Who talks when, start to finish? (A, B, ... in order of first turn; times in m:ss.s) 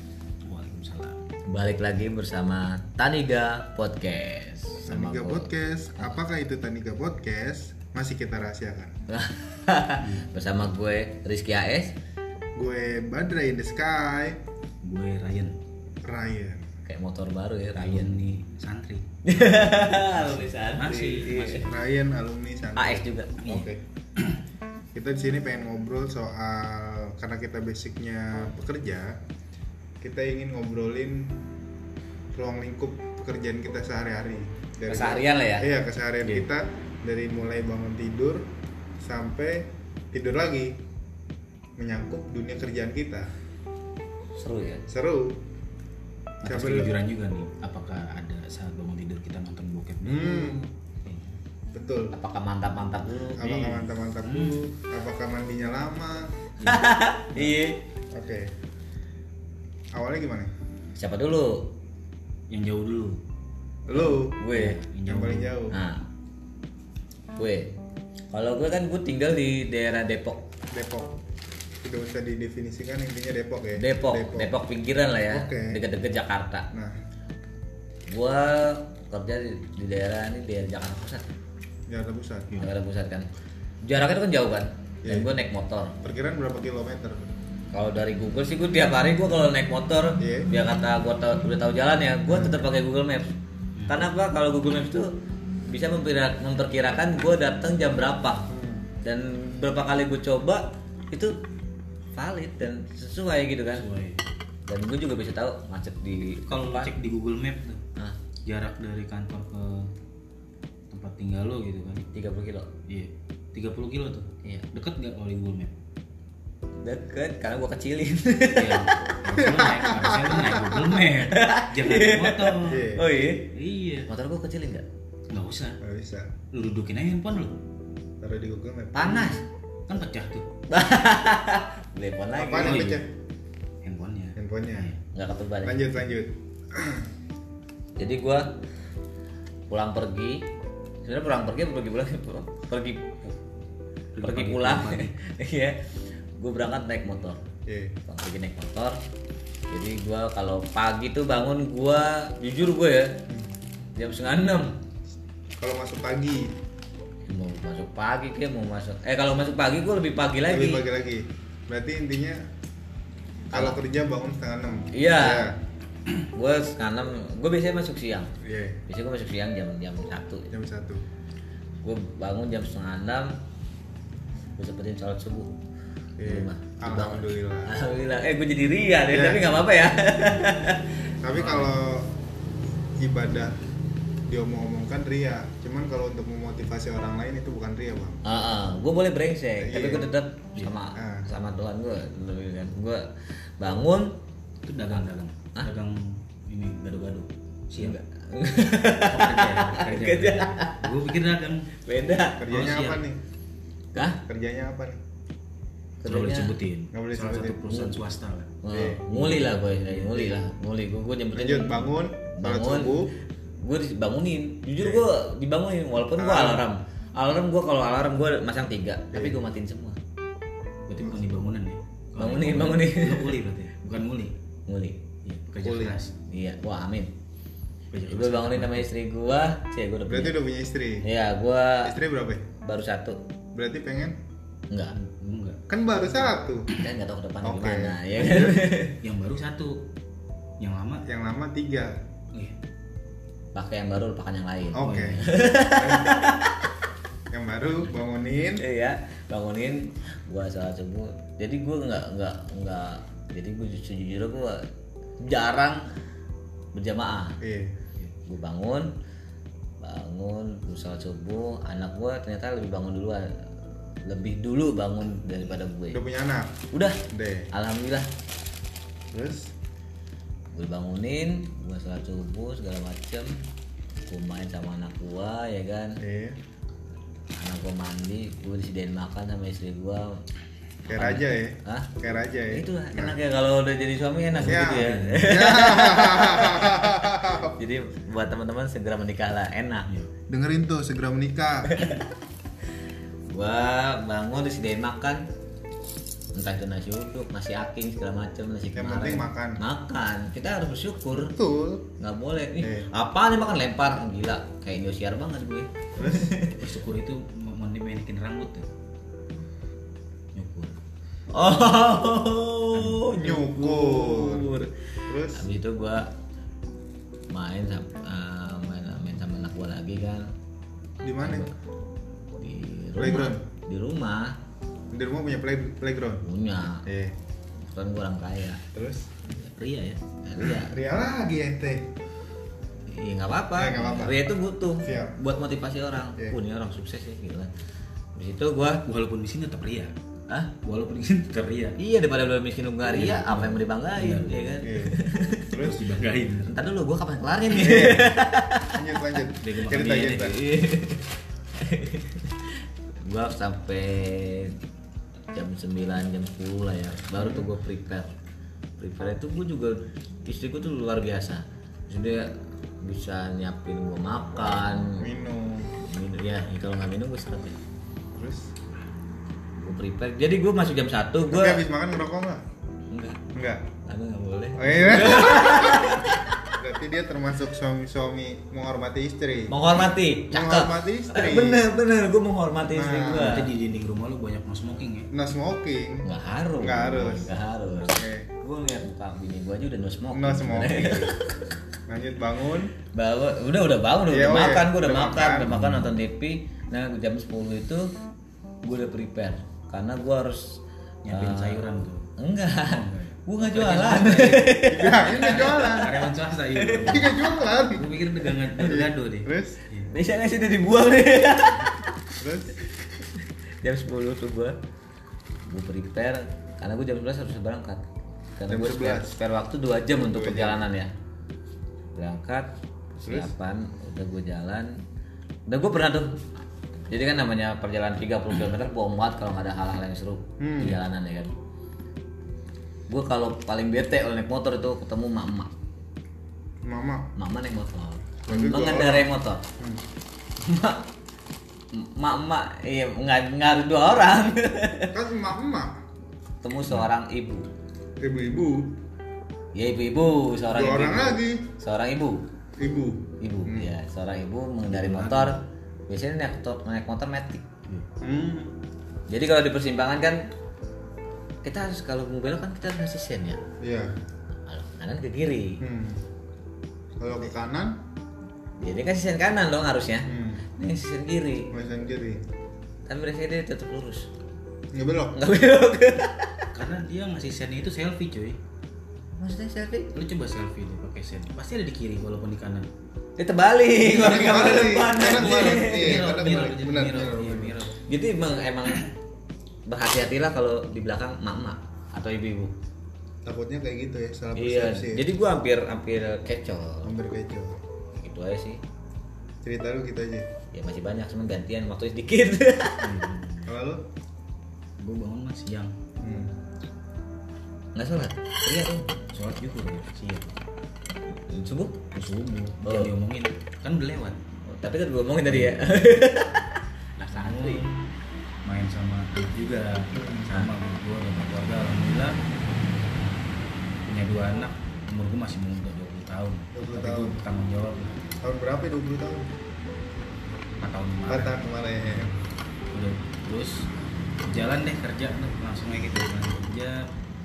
0:00.4-0:01.2 A
0:01.5-0:06.2 B
0:04.8-0:08.9 C
0:09.1-0:11.9 B
0:10.0-0:10.2 A
0:12.6-0:14.4 C
0:14.8-0:15.5 A
0:16.0-0:16.7 C
0:16.8-0:18.2 B
0:17.8-0:19.0 A
0:19.2-0:21.7 B
0:19.8-0:21.8 A
0:21.6-0:23.8 C
0:22.8-0:23.4 B
0:23.4-0:24.4 A
0:24.9-0:29.2 C
0:30.0-0:31.3 C
0:32.3-0:38.4 C
0:34.9-0:35.7 B
0:39.0-0:40.8 C
0:41.8-0:43.3 C
0:44.3-0:44.8 B
0:44.9-0:45.4 C
0:46.4-0:51.2 A
0:46.4-0:47.0 C
0:50.0-0:50.7 C
0:51.7-0:52.1 C
0:52.1-0:53.4 B
0:53.4-0:56.4 C
0:53.4-0:54.6 A
0:56.6-0:56.9 A
0:56.6-0:57.8 B
0:58.1-0:58.5 C
0:59.9-1:00.5 C
1:01.0-1:01.7 B
1:02.5-1:03.2 A
1:03.9-1:04.4 C
1:04.0-1:05.6 A
1:04.3-1:04.8 B
1:05.0-1:05.8 C
1:05.7-1:06.0 B
1:07.4-1:07.7 B
1:08.3-1:10.4 B
1:10.7-1:11.2 C
1:11.8-1:14.5 C
1:13.8-1:16.7 B
1:15.2-1:15.8 C
1:18.1-1:21.2 B
1:21.9-1:22.5 C
1:22.6-1:23.2 B
1:23.8-1:25.9 B
1:25.0-1:25.3 C
1:26.0-1:27.3 C
1:27.7-1:33.3 B
1:30.2-1:30.5 C
1:32.3-1:32.6 C
1:33.8-1:34.0 A
1:33.9-1:35.1 B
1:35.7-1:38.4 B
1:38.5-1:38.9 C
1:39.0-1:41.3 B
1:42.1-1:43.8 B
1:43.8-1:44.2 A
1:44.7-1:46.9 B
1:46.2-1:47.8 A
1:48.4-1:49.9 A
1:50.9-1:52.1 A
1:52.1-1:52.7 B
1:52.9-1:55.7 A
1:56.8-1:59.1 B
1:58.5-2:02.9 A
1:59.4-2:01.0 C
2:00.4-2:03.5 B
2:02.6-2:03.0 C
2:03.5-2:04.1 A
2:04.1-2:04.8 B
2:05.3-2:05.8 A
2:05.8-2:06.3 C
2:06.5-2:07.5 A
2:08.2-2:09.3 C
2:08.9-2:09.4 B
2:09.9-2:10.4 A
2:10.7-2:12.9 B
2:12.3-2:13.1 C
2:12.4-2:13.0 A
2:13.8-2:15.0 A
2:14.4-2:14.9 C
2:15.1-2:15.8 B
2:15.6-2:17.0 C
2:18.0-2:18.5 B
2:19.7-2:20.4 B
2:21.0-2:23.3 B
2:24.2-2:25.1 A
2:24.2-2:25.8 B
2:26.4-2:27.4 B
2:27.7-2:27.9 C
2:28.1-2:29.0 B
2:29.7-2:33.1 B
2:34.0-2:34.7 B
2:35.6-2:36.5 C
2:37.3-2:40.8 B
2:40.5-2:42.4 C
2:43.5-2:43.8 B
2:43.5-2:45.6 C
2:44.9-2:45.5 B
2:46.2-2:48.3 B
2:48.4-2:48.8 C
2:48.9-2:50.5 B
2:50.5-2:51.0 C
2:51.8-2:53.3 B
2:54.6-2:55.5 B
2:56.2-2:57.7 C
2:56.2-3:01.0 B
2:59.1-2:59.6 C
3:01.2-3:02.1 C
3:01.4-3:01.7 A
3:03.0-3:03.6 C
3:04.3-3:08.2 C
3:08.2-3:14.1 B
3:09.6-3:10.1 C
3:10.9-3:11.3 C
3:14.6-3:18.0 A
3:17.8-3:20.8 B
3:19.1-3:21.7 A
3:21.8-3:22.5 B
3:22.4-3:23.2 C
3:22.5-3:23.0 A
3:23.9-3:24.2 B
3:24.2-3:25.0 C
3:26.0-3:26.5 B
3:26.0-3:28.5 A
3:26.9-3:27.9 C
3:28.6-3:33.1 B
3:28.7-3:29.1 C
3:29.2-3:30.3 A
3:31.3-3:33.1 C
3:33.6-3:40.0 B
3:36.2-3:36.6 C
3:40.9-3:44.3 A
3:42.2-3:43.4 B
3:44.7-3:45.0 B
3:45.2-3:46.1 A
3:45.6-3:46.0 C
3:46.3-3:47.1 B
3:47.9-3:48.9 A
3:48.0-3:50.4 B
3:50.1-3:51.0 C
3:51.0-3:51.9 B
3:51.8-3:52.4 C
3:52.6-3:53.2 B
3:53.5-3:54.2 C
3:54.9-3:55.6 A
3:55.7-3:56.7 C
3:56.8-3:59.0 B
3:57.4-3:58.7 C
3:59.0-3:59.8 A
4:00.6-4:01.0 A
4:01.0-4:02.0 C
4:03.5-4:06.6 B
4:04.7-4:06.2 C
4:04.8-4:05.3 A
4:07.3-4:08.6 C
4:08.6-4:14.6 B
4:15.2-4:15.8 B
4:16.7-4:17.4 B
4:17.4-4:17.7 C
4:18.2-4:18.9 B
4:19.8-4:23.5 B
4:24.0-4:26.0 B
4:25.9-4:26.6 C
4:26.7-4:27.0 B
4:27.1-4:27.5 C
4:27.5-4:28.1 B
4:29.1-4:29.5 C
4:30.5-4:33.3 B
4:34.1-4:36.0 B
4:36.0-4:36.4 C
4:37.3-4:40.1 B
4:40.9-4:41.9 B
4:40.9-4:43.2 C
4:42.5-4:49.9 B
4:44.3-4:45.3 A
4:44.4-4:47.6 C
4:50.3-4:51.9 C
4:51.7-4:52.0 B
4:53.3-4:55.2 B
4:56.3-5:01.3 B
4:58.7-4:59.6 C
5:01.1-5:01.9 C
5:02.0-5:06.6 B
5:02.6-5:02.9 C
5:06.0-5:06.4 C
5:06.5-5:08.6 A
5:10.3-5:10.8 A
5:11.3-5:16.1 B
5:12.7-5:13.1 A
5:13.1-5:14.5 C
5:15.1-5:15.4 C
5:17.3-5:20.3 B
5:21.0-5:21.5 C
5:21.2-5:21.5 B
5:22.4-5:24.4 B
5:23.0-5:23.4 C
5:24.9-5:26.2 C
5:26.2-5:26.8 B
5:26.8-5:27.1 C
5:27.7-5:28.6 B
5:28.7-5:29.1 C
5:29.5-5:30.0 A
5:30.2-5:30.8 B
5:30.4-5:31.9 C
5:32.9-5:37.5 B
5:33.5-5:34.2 C
5:34.8-5:35.2 C
5:38.1-5:38.8 B
5:38.8-5:39.9 A
5:40.6-5:41.8 A
5:41.8-5:45.7 B
5:42.8-5:44.5 A
5:44.6-5:45.0 C
5:45.5-5:45.8 C
5:45.6-5:46.5 A
5:46.4-5:48.8 B
5:47.5-5:48.2 C
5:48.7-5:50.4 C
5:49.4-5:50.3 A
5:50.2-5:54.6 B
5:55.3-5:58.1 B
5:57.2-5:57.5 C
5:58.8-6:05.0 B
6:05.0-6:05.7 C
6:05.8-6:07.6 B
6:08.1-6:08.5 C
6:09.6-6:11.6 B
6:11.3-6:12.4 C
6:12.9-6:13.2 B
6:13.3-6:13.6 C
6:13.8-6:16.5 B
6:14.6-6:16.0 C
6:16.6-6:21.6 C
6:19.5-6:23.5 B
6:22.7-6:23.4 C
6:23.2-6:25.1 A
6:25.1-6:26.1 C
6:26.0-6:31.2 B
6:26.6-6:28.3 C
6:30.1-6:31.1 C
6:31.9-6:32.7 C
6:32.9-6:37.9 B
6:34.1-6:35.7 C
6:38.6-6:41.6 B
6:41.0-6:42.0 A
6:42.2-6:46.0 B
6:42.6-6:49.9 A
6:44.6-6:45.9 C
6:46.6-6:47.0 B
6:46.8-6:47.8 C
6:48.6-6:49.6 C
6:49.9-6:51.9 B
6:52.2-6:52.6 C
6:53.6-6:54.6 B
6:55.5-6:57.8 B
6:58.4-7:00.9 B
6:58.5-6:59.2 C
7:00.0-7:00.7 C
7:02.0-7:04.7 B
7:03.0-7:03.3 C
7:05.5-7:06.1 B
7:06.9-7:11.3 B
7:10.4-7:10.8 C
7:12.9-7:15.5 B
7:16.6-7:17.1 C
7:17.2-7:19.4 B
7:18.2-7:19.8 C
7:20.4-7:20.8 B
7:21.7-7:24.9 B
7:24.9-7:25.7 C
7:26.4-7:27.5 B
7:28.0-7:28.7 C
7:29.5-7:32.2 B
7:30.5-7:31.4 C
7:32.6-7:33.7 C
7:33.2-7:37.4 B
7:34.7-7:35.4 A
7:38.0-7:38.5 C
7:39.1-7:40.2 B
7:41.4-7:43.4 B
7:43.6-7:43.9 C
7:44.5-7:45.6 B
7:45.6-7:46.0 C
7:47.0-7:47.8 C
7:48.6-7:51.5 B
7:50.0-7:50.4 C
7:51.5-7:52.2 C
7:52.9-7:54.1 B
7:54.7-7:55.2 C
7:55.1-7:56.5 B
7:56.5-7:58.4 A
7:59.2-7:59.9 B
7:59.9-8:02.7 A
8:03.2-8:06.1 B
8:03.8-8:07.6 C
8:05.0-8:07.8 A
8:07.9-8:08.8 B
8:09.7-8:12.5 B
8:13.2-8:15.0 C
8:14.3-8:16.9 B
8:16.8-8:17.6 C
8:17.9-8:18.6 B
8:19.4-8:20.3 C
8:20.5-8:22.9 B
8:22.8-8:23.5 A
8:23.4-8:23.8 C
8:24.8-8:25.7 A
8:26.0-8:26.3 C
8:27.7-8:28.9 B
8:29.1-8:30.3 A
8:31.2-8:31.8 B
8:31.9-8:34.2 A
8:32.6-8:32.9 B
8:34.5-8:36.4 B
8:35.2-8:35.7 A
8:37.0-8:37.6 B
8:37.1-8:37.8 A
8:38.4-8:42.2 A
8:39.9-8:40.3 C
8:43.9-8:48.0 A
8:46.5-8:47.2 C
8:48.2-8:49.3 C
8:50.6-8:52.2 A
8:51.1-8:52.1 C
8:52.7-8:53.7 A
8:54.2-8:56.8 A